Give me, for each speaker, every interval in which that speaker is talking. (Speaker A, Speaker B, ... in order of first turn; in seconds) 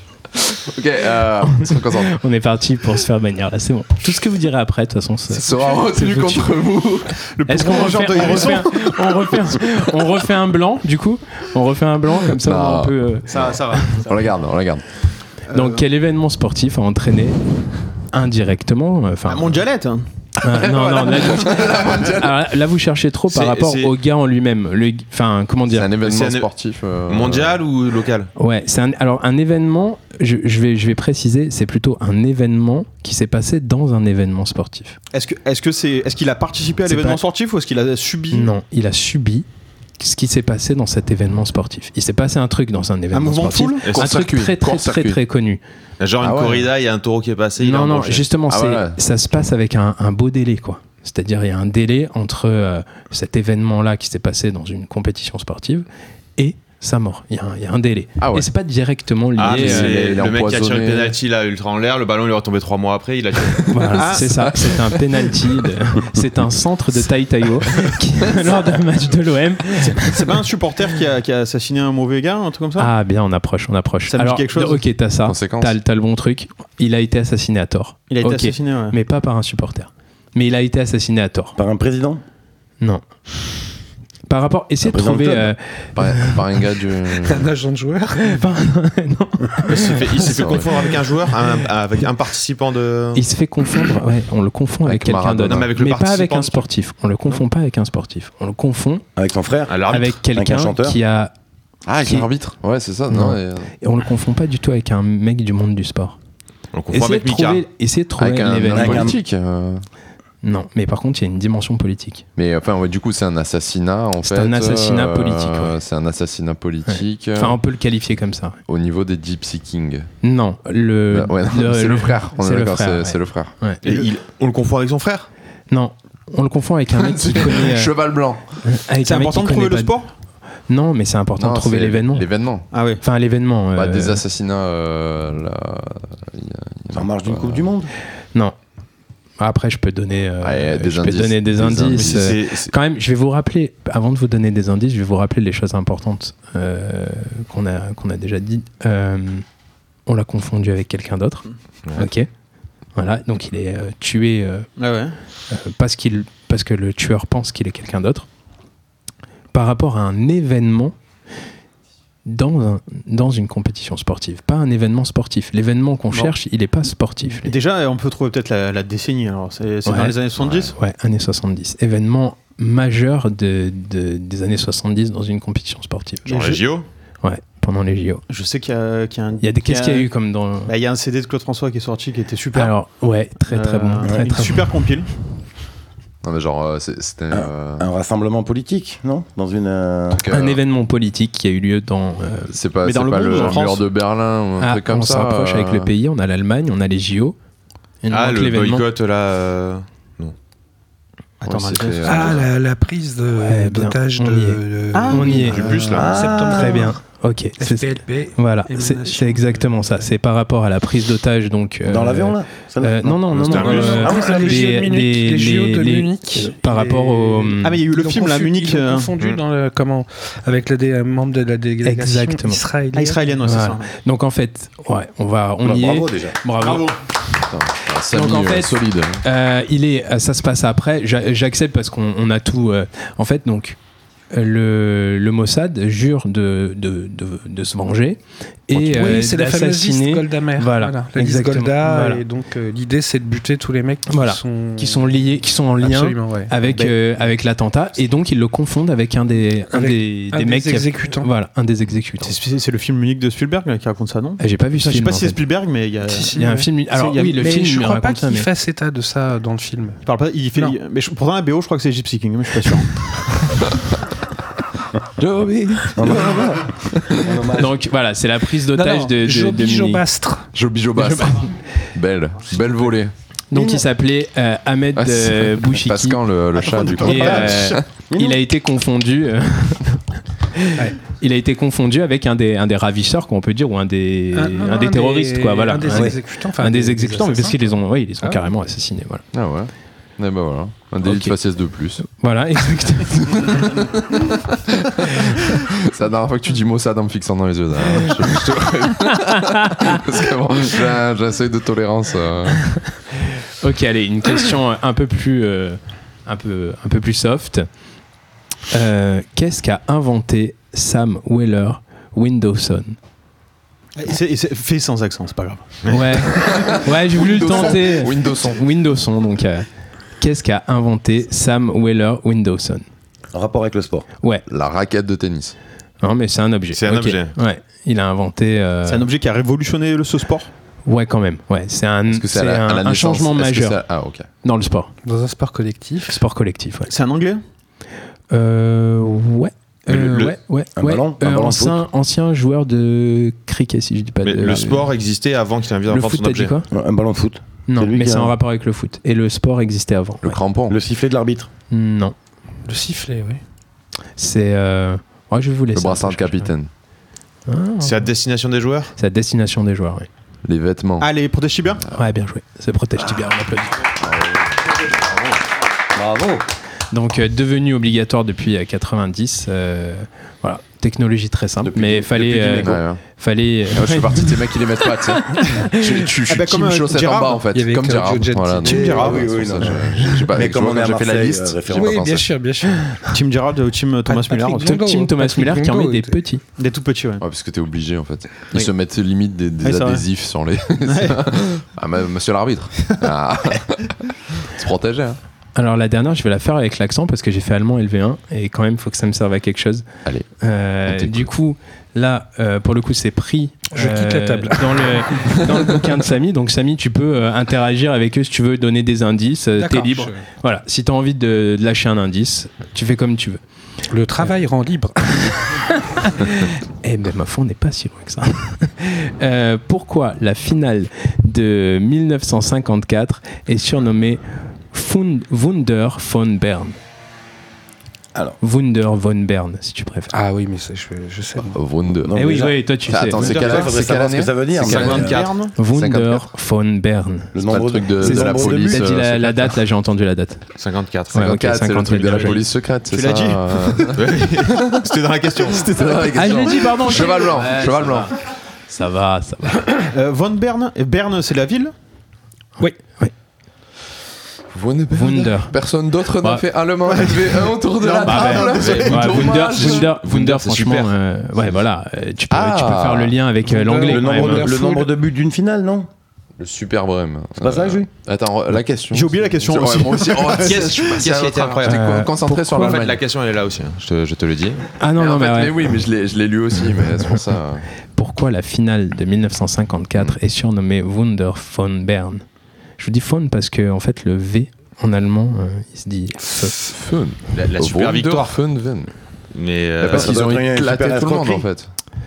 Speaker A: 0.4-2.2, 5.3-7.2, 12.4-14.8, 20.4-22.5, 25.7-27.6, 44.0-45.2, 46.2-46.7, 48.5-49.0, 58.2-58.5, 59.5-61.1, 64.2-64.7, 75.3-75.8, 86.0-87.5, 90.2-90.7, 94.9-95.7, 101.9-103.7, 108.2-109.8, 112.4-117.6, 118.7-120.1, 121.1-123.5, 126.9-128.6, 131.4-132.7, 133.8-137.7, 140.4-142.4, 186.2-187.9, 190.1-190.6, 192.5-195.9, 201.5-202.4, 227.5-229.2, 265.2-267.4, 270.5-273.1, 275.0-277.9, 289.3-292.0, 293.3-302.7, 316.3-318.6, 324.5-325.6, 332.1-334.3, 350.2-350.8, 355.7-356.7, 360.4-361.1, 364.0-364.4, 372.5-373.0, 373.7-382.3, 387.2-395.2, 400.9-401.3, 431.5-432.1, 432.9-436.2, 437.4-439.6, 441.2-444.9, 445.6-448.1, 454.5-460.9, 462.3-463.2, 466.4-473.0, 474.9-477.6, 486.6-488.9, 489.8-491.7
Speaker B: 1.5-6.5, 7.5-13.9, 15.5-17.4, 18.1-19.6, 20.4-25.9, 28.4-35.0, 36.9-37.2, 38.3-39.5, 40.0-45.6, 47.6-55.9, 56.4-60.0, 63.7-70.3, 72.8-81.6, 84.3-86.6, 88.2-90.0, 93.2-99.0, 99.9-101.3, 103.1-106.2, 106.9-109.1, 110.4-112.3, 114.2-115.8, 116.9-118.6, 120.2-123.8, 125.7-127.9, 128.6-129.9, 130.7-132.3, 133.0-134.2, 139.4-149.5, 150.1-152.3, 153.0-154.7, 155.5-158.3, 159.5-160.9, 162.2-167.5, 169.9-170.2, 170.7-176.6, 177.2-178.2, 179.4-180.7, 182.5-184.7, 190.3-192.6, 193.3-193.6, 194.6-197.4, 198.0-198.8, 203.4-205.8, 206.5-217.8, 221.8-222.6, 223.4-226.9, 228.1-233.8, 234.3-242.2, 244.1-252.4, 254.4-255.4, 256.4-258.5, 267.5-270.1, 271.0-271.5, 273.5-276.2, 277.0-280.0, 280.6-289.2, 291.0-291.3, 292.0-293.8, 295.1-295.4, 298.1-298.4, 299.1-300.0, 303.4-307.7, 308.7-313.0, 315.9-319.7, 320.2-322.9, 326.0-329.1, 330.9-333.8, 334.4-334.9, 336.1-336.9, 338.3-344.9, 345.9-346.7, 347.7-350.4, 351.7-352.1, 354.2-356.5, 357.5-358.1, 359.0-360.1, 361.9-363.9, 366.9-374.4, 375.0-375.9, 384.7-386.4, 395.6-399.9, 400.4-413.4, 415.2-426.8, 428.4-430.1, 432.1-433.4, 435.6-437.4, 438.0-440.4, 441.1-442.4, 446.1-448.1, 448.7-449.9, 452.6-453.1, 454.9-455.6, 456.2-456.4, 458.0-464.5, 471.6-472.8, 474.8-475.8, 477.9-482.2, 482.8-486.6
Speaker C: 7.4-8.7, 13.3-14.1, 15.5-15.8, 19.3-20.1, 21.2-21.9, 35.1-38.5, 43.1-43.9, 63.9-64.5, 69.8-72.9, 74.1-74.8, 78.1-79.0, 123.8-124.1, 129.0-130.1, 132.7-133.0, 154.8-155.2, 167.4-170.7, 176.3-176.8, 178.3-180.1, 180.7-182.7, 183.5-185.1, 192.8-193.8, 201.4-202.4, 204.9-205.4, 217.6-219.1, 222.9-223.9, 226.6-227.0, 252.2-256.4, 256.9-257.4, 260.0-263.0, 276.6-277.7, 314.0-316.0, 328.9-330.5, 336.9-337.4, 361.0-361.8, 376.3-377.4, 378.6-379.5, 383.1-384.8, 386.6-387.2, 389.6-390.1, 390.9-391.2, 433.2-433.7, 434.6-435.6, 442.9-446.5, 449.9-451.7, 456.9-459.9, 468.9-471.1
Speaker D: 13.5-13.8, 23.3-23.9, 26.0-26.5, 27.1-28.3, 43.8-44.2, 46.0-48.3, 59.4-64.0, 89.7-93.2, 95.5-96.6, 99.7-100.2, 106.7-107.7, 123.8-125.3, 141.9-142.7, 170.4-170.7, 176.3-176.8, 198.1-200.3, 205.3-206.2, 213.4-213.9, 326.7-327.4, 339.9-340.3, 344.2-346.6, 357.8-358.9, 434.7-435.3, 440.6-441.4, 444.0-444.3, 445.0-445.4, 458.6-459.0, 470.4-471.8, 472.6-474.7, 487.3-488.4, 489.3-490.2
Speaker E: 81.6-82.2, 84.8-85.5, 99.2-99.8, 100.3-101.0, 108.8-109.2, 136.9-137.9, 187.3-190.2, 205.9-206.9, 211.9-214.7, 225.6-226.4, 266.0-267.7, 273.5-273.9, 277.0-278.4, 285.9-286.2, 323.3-324.1, 340.8-341.8, 346.7-348.3, 350.7-351.5, 365.9-366.4, 371.6-372.8, 378.6-382.1, 431.9-432.6, 433.1-435.2, 437.3-438.8, 463.9-465.9, 467.4-467.9, 489.9-491.5
Speaker F: 87.2-88.4, 202.1-207.0, 207.6-209.8, 213.5-223.2, 238.7-245.2, 245.8-246.6, 249.7-251.3, 256.1-260.0, 268.7-270.5, 284.3-288.4, 335.0-336.2, 352.7-353.4, 377.5-380.2, 381.7-383.1, 384.1-386.2, 403.7-405.4, 409.6-410.3, 413.9-415.3, 430.1-431.6, 463.4-464.9